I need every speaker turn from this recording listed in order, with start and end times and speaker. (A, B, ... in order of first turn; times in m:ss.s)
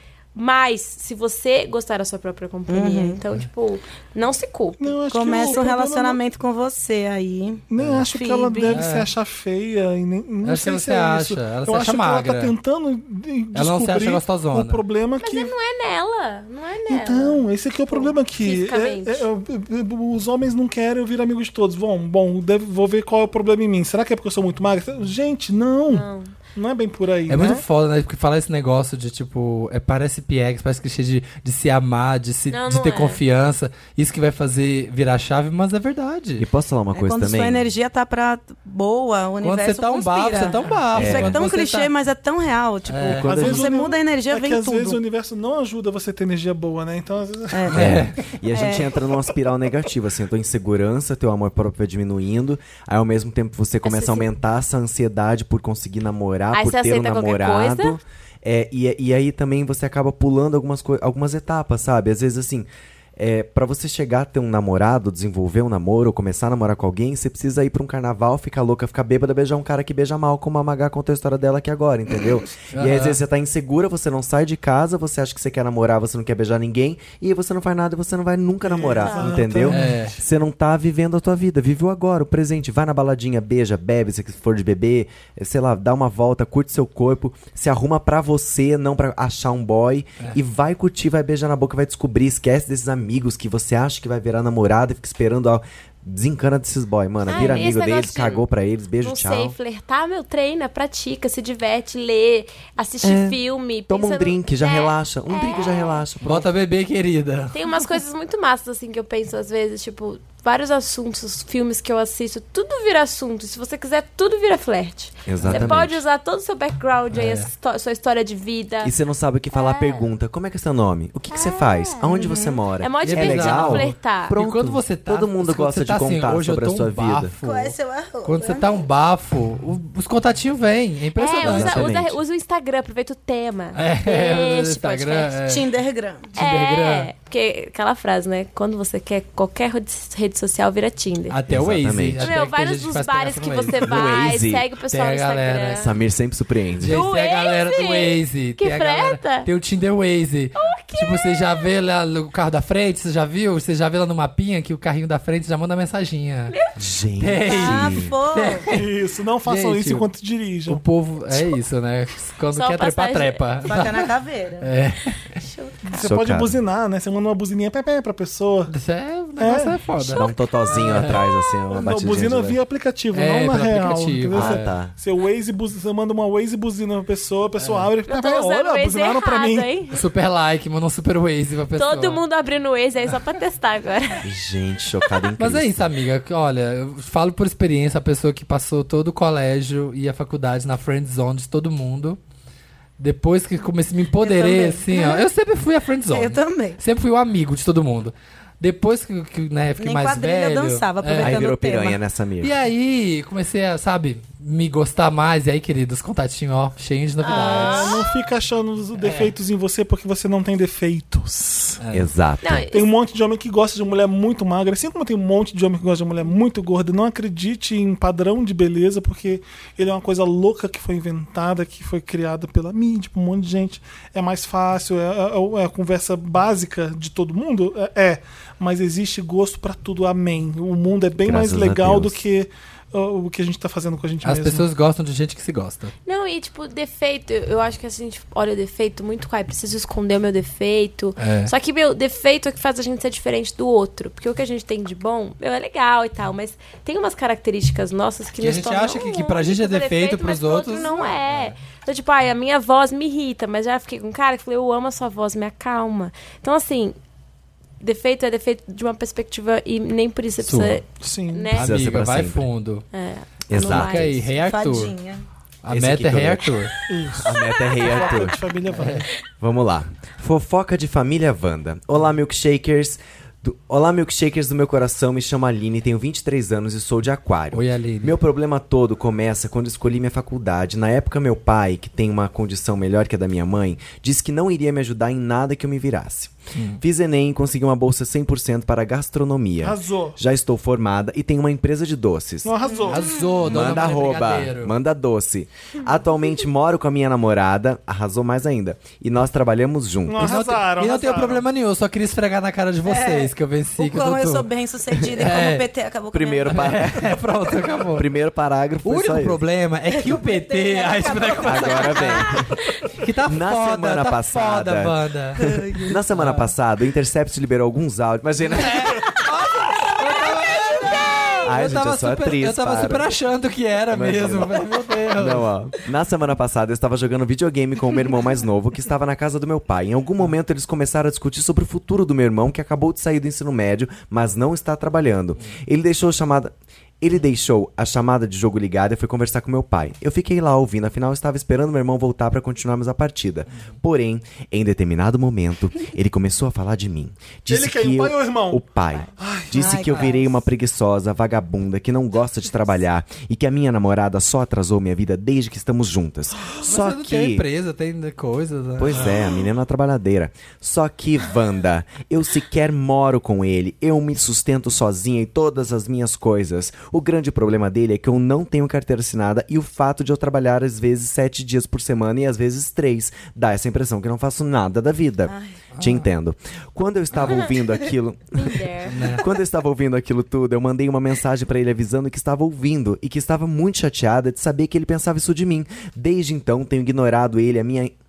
0:00.4-0:05.7 A
0:02.7-0:03.2 B
0:04.8-0:06.2 C
0:05.1-0:08.8 B
0:07.7-0:15.5 C
0:07.8-0:08.0 D
0:08.7-0:09.1 D
0:10.4-0:12.6 D
0:13.6-0:14.8 D
0:15.2-0:19.3 A
0:16.9-0:27.6 C
0:25.9-0:26.3 A
0:27.3-0:36.5 D
0:32.5-0:33.2 A
0:36.4-0:37.7 E
0:36.9-0:45.0 B
0:39.4-0:41.9 D
0:40.9-0:41.4 E
0:42.9-0:43.4 D
0:43.1-0:43.7 E
0:43.2-0:47.7 C
0:47.5-0:47.9 B
0:47.7-0:48.6 D
0:47.7-1:39.6 E
0:48.5-0:49.0 B
0:53.8-0:54.3 A
0:56.5-0:58.0 A
1:12.7-1:13.2 D
1:18.6-1:20.2 C
1:19.0-1:19.4 B
1:19.7-1:20.1 D
1:37.3-1:38.4 A
1:39.0-1:46.0 A
1:43.0-1:46.5 E
1:46.2-1:47.9 D
1:47.5-1:58.9 A
1:55.3-1:56.0 E
1:55.4-1:55.8 D
1:57.1-1:57.5 D
1:58.8-2:07.3 E
1:59.5-2:00.0 A
2:01.3-2:02.1 A
2:02.1-2:02.6 B
2:02.8-2:04.4 A
2:03.0-2:12.0 D
2:07.4-2:08.7 B
2:11.2-2:15.3 A
2:11.4-2:12.2 E
2:13.8-2:15.7 D
2:15.4-2:16.3 B
2:16.3-2:17.1 D
2:16.4-2:21.4 A
2:21.3-2:23.9 D
2:21.5-2:22.3 E
2:22.2-2:25.9 A
2:23.8-2:24.7 E
2:24.9-2:25.9 D
2:25.7-2:27.0 E
2:26.8-2:36.6 D
2:26.8-2:29.5 A
2:30.6-2:31.5 A
2:36.8-2:38.2 E
2:37.2-2:38.9 D
2:37.5-2:38.7 B
2:38.7-2:40.8 C
2:39.4-2:40.1 D
2:40.7-2:45.4 D
2:42.5-2:43.4 A
2:43.6-2:44.7 B
2:45.4-2:46.0 A
2:45.8-2:48.7 C
2:46.0-2:46.6 E
2:48.7-2:51.3 D
2:49.4-2:49.8 C
2:50.1-2:52.6 E
2:51.7-2:59.7 C
2:53.1-2:54.7 D
2:54.3-2:54.9 E
2:57.6-2:57.9 D
2:58.1-3:00.0 A
2:59.9-3:02.2 D
3:01.8-3:04.2 A
3:04.2-3:05.7 E
3:05.4-3:12.2 D
3:13.0-3:21.5 D
3:14.2-3:15.3 B
3:16.1-3:16.8 B
3:19.8-3:22.0 B
3:21.2-3:22.5 E
3:22.4-3:28.0 D
3:27.2-3:28.1 A
3:27.2-3:31.8 C
3:29.0-3:29.3 D
3:31.8-3:32.1 D
3:31.9-3:32.6 E
3:32.4-3:32.9 A
3:32.7-3:54.7 C
3:51.2-3:52.2 E
3:54.2-3:55.9 D
3:56.1-4:17.0 A
4:01.2-4:01.5 D
4:08.4-4:11.6 D
4:17.8-4:21.7 A
4:20.4-4:20.8 D
4:21.0-4:21.5 C
4:21.5-4:22.9 D
4:21.5-4:22.5 E
4:22.9-4:24.3 A
4:23.5-4:24.1 E
4:23.6-4:25.0 D
4:24.4-4:25.2 B
4:25.6-4:26.8 D
4:25.7-4:26.6 E
4:26.9-4:29.1 C
4:27.2-4:28.4 E
4:28.7-4:29.1 D
4:29.4-4:52.5 E
4:37.5-4:38.2 D
4:46.6-4:46.8 D
4:49.6-4:50.2 C
4:52.4-4:53.2 C
4:52.6-4:53.6 B
4:52.9-4:54.7 D
4:53.4-5:00.3 E
5:00.1-5:01.4 C
5:00.2-5:04.5 D
5:02.9-5:06.8 B
5:05.1-5:05.7 D
5:06.1-5:07.2 E
5:06.5-5:08.1 D
5:07.9-5:09.4 E
5:08.8-5:12.4 D
5:09.9-5:12.4 B
5:11.4-5:12.6 E
5:12.9-5:16.5 D
5:13.3-5:19.0 E
5:15.4-5:16.0 B
5:18.5-5:25.5 D
5:21.4-5:23.1 E
5:23.9-5:24.6 E
5:25.2-5:57.5 E
5:47.5-5:48.7 C
5:49.2-5:50.0 C
5:49.5-5:50.3 B
5:56.6-5:59.2 D
5:58.8-6:27.9 E
6:15.3-6:15.5 B
6:15.7-6:16.1 D
6:17.1-6:17.4 D
6:18.3-6:19.0 A
6:18.9-6:19.2 D